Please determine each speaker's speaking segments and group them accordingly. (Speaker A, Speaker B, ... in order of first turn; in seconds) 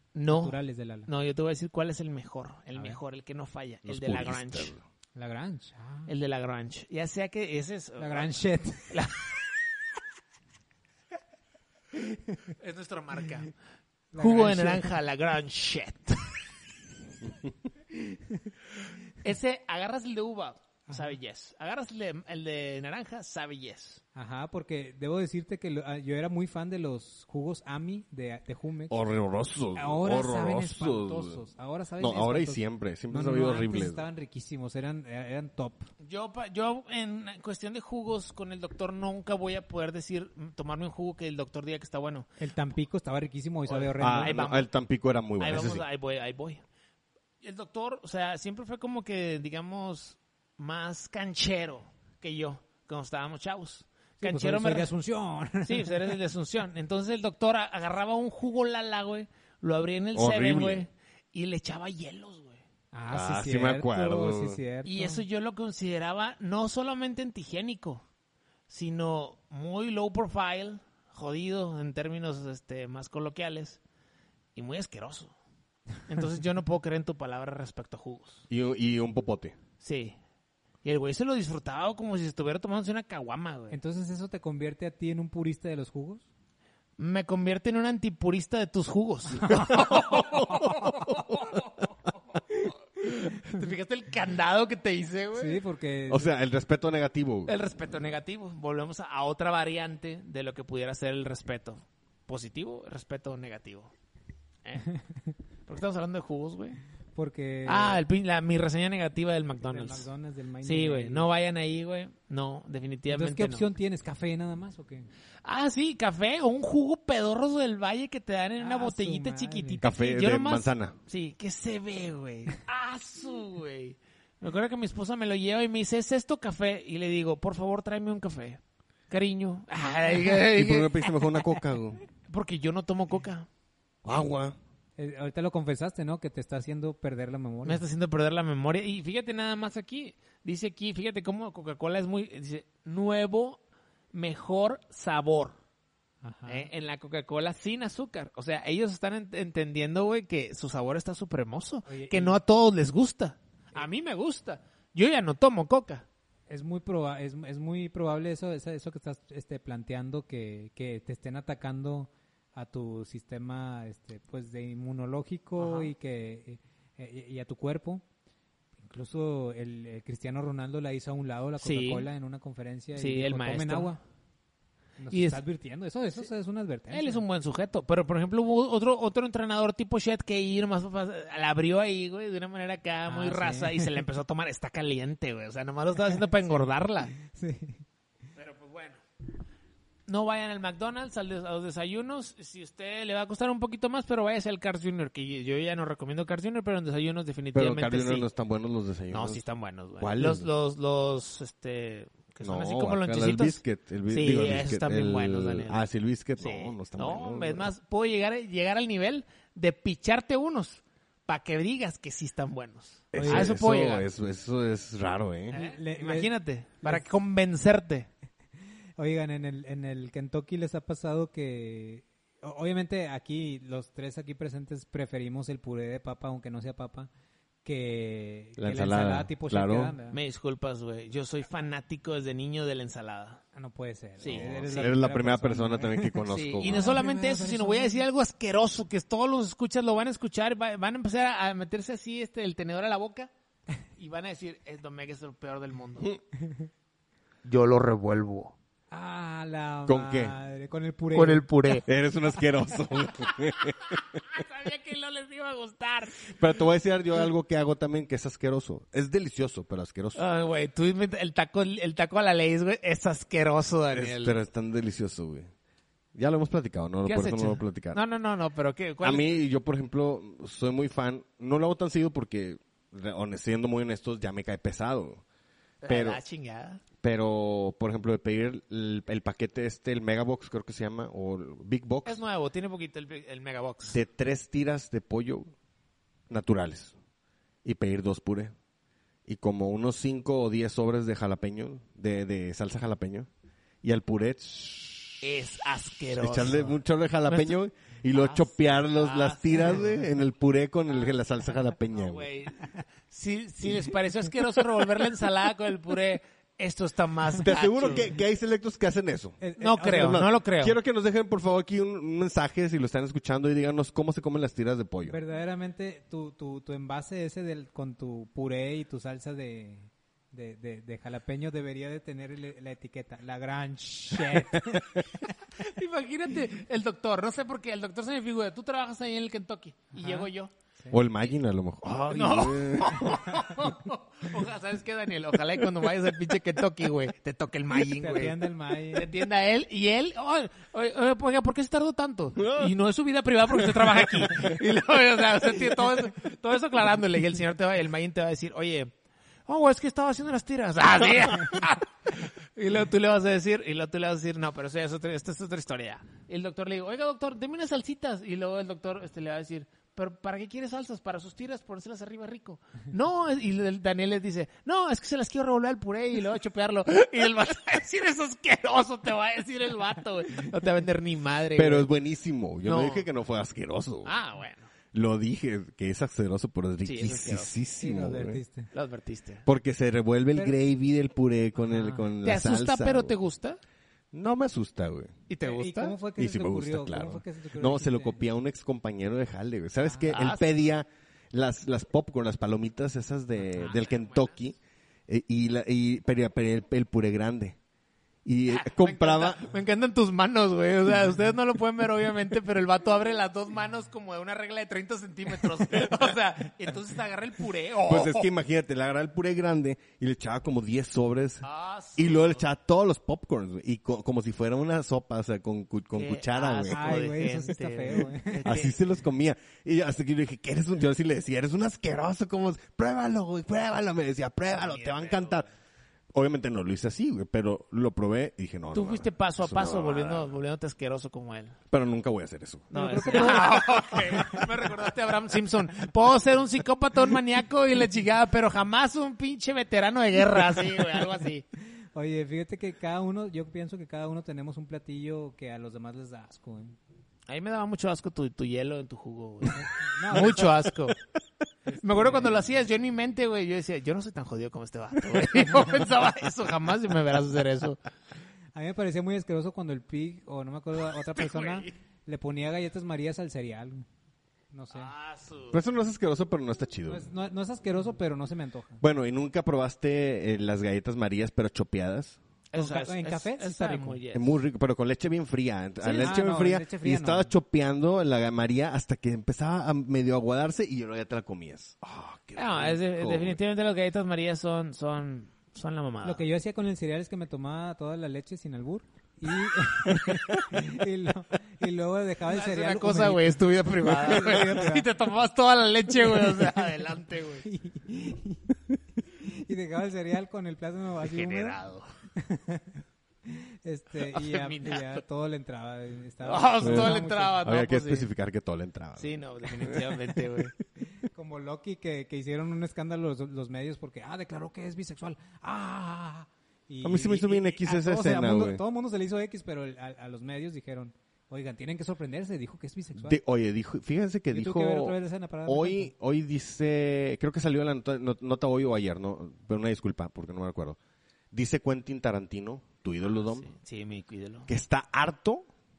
Speaker A: 0.1-4.8, 6.1-8.3, 8.9-9.3, 12.6-13.5, 14.2-16.4, 19.2-24.0, 36.0-42.3, 43.7-44.7, 45.4-46.6, 47.4-54.9, 55.6-62.6, 64.8-68.0, 68.7-73.8, 74.6-75.3, 76.1-78.5, 79.8-80.2, 80.8-83.8, 87.0-91.9, 92.6-95.6, 97.5-103.9, 105.7-106.8, 107.7-110.1, 110.6-113.7, 115.5-131.4, 132.3-133.5, 137.7-143.6, 144.1-145.6, 146.5-156.1, 165.6-165.9, 171.6-172.1, 173.0-174.0, 175.1-175.4, 176.9-187.1, 188.4-189.0, 190.1-198.3, 199.1-205.8, 206.4-214.1, 215.5-218.1, 230.1-233.4, 234.2-234.9, 236.3-243.3, 244.0-246.1, 247.4-248.6, 251.1-251.9, 253.8-256.4, 260.1-264.4, 267.1-269.4, 275.8-276.8, 282.1-284.0, 295.2-296.8, 297.3-297.6, 298.1-299.9, 301.9-308.1, 309.6-310.8, 325.6-330.5, 332.1-348.9, 349.5-371.9, 372.6-373.1, 374.1-374.7, 376.8-377.5, 378.7-379.4, 382.2-383.6, 385.3-386.0, 390.1-390.6, 393.6-394.4, 398.5-408.3, 411.4-412.5, 415.9-418.8, 424.5-425.5, 428.7-431.6, 432.7-441.4, 447.3-451.0, 451.8-457.8, 461.1-461.7, 464.7-465.6, 472.5-474.4, 475.8-476.1, 482.4-486.2, 492.3-497.5, 501.0-501.9, 504.1-505.0, 506.2-508.1, 509.0-510.6, 533.1-534.5
Speaker B: 0.3-1.1, 5.2-6.1, 8.0-9.1, 12.1-12.4, 14.1-14.8, 17.9-18.5, 20.9-21.2, 24.2-29.0, 29.8-35.9, 42.4-44.5, 54.2-56.2, 62.9-65.2, 83.7-86.3, 89.4-90.1, 95.3-96.3, 107.2-108.0, 109.7-111.3, 113.1-115.1, 118.6-119.8, 135.0-137.8, 146.2-146.7, 151.9-152.4, 156.5-168.0, 168.8-174.0, 175.0-177.2, 183.1-183.9, 187.2-187.8, 213.2-213.5, 215.5-216.3, 219.0-227.1, 227.7-230.2, 233.6-238.0, 246.4-246.7, 248.9-251.4, 309.4-310.2, 315.1-325.3, 329.9-331.0, 337.7-339.1, 377.8-378.7, 381.6-382.1, 385.4-388.2, 389.9-390.1, 416.7-418.5, 432.7-434.4, 441.9-446.8, 449.6-450.5, 451.7-452.4, 458.5-463.9, 464.5-464.9, 466.9-468.8, 472.6-474.0, 476.0-477.3, 486.0-494.9, 497.4-498.6, 499.1-501.6, 502.2-507.4, 511.0-523.2, 524.3-525.9
Speaker C: 3.9-4.8, 28.9-31.4, 32.0-34.0, 44.0-45.8, 60.1-60.9, 63.1-64.6, 78.5-79.6, 89.6-91.3, 96.1-97.5, 119.8-121.0, 130.3-132.0, 134.1-134.6, 197.5-199.4, 200.0-200.5, 202.4-207.7, 213.1-215.6, 228.6-230.0, 234.2-237.0, 249.9-250.4, 251.8-254.0, 256.3-260.2, 263.9-265.5, 266.1-268.0, 269.0-275.2, 275.9-276.2, 277.0-282.2, 283.9-285.5, 286.3-286.9, 287.6-288.5, 289.3-293.3, 293.8-295.3, 296.2-302.2, 307.4-309.4, 309.9-315.2, 330.9-333.3, 342.4-342.7, 371.6-374.1, 374.9-378.4, 379.5-383.1, 384.1-385.2, 386.2-394.6, 395.1-397.6, 398.2-399.4, 407.9-417.0, 418.4-425.5, 426.1-430.4, 431.7-433.2, 465.5-467.1, 468.8-472.2, 474.1-483.4, 506.6-510.5, 516.8-518.6, 523.0-530.8, 531.3-533.5, 534.5-535.5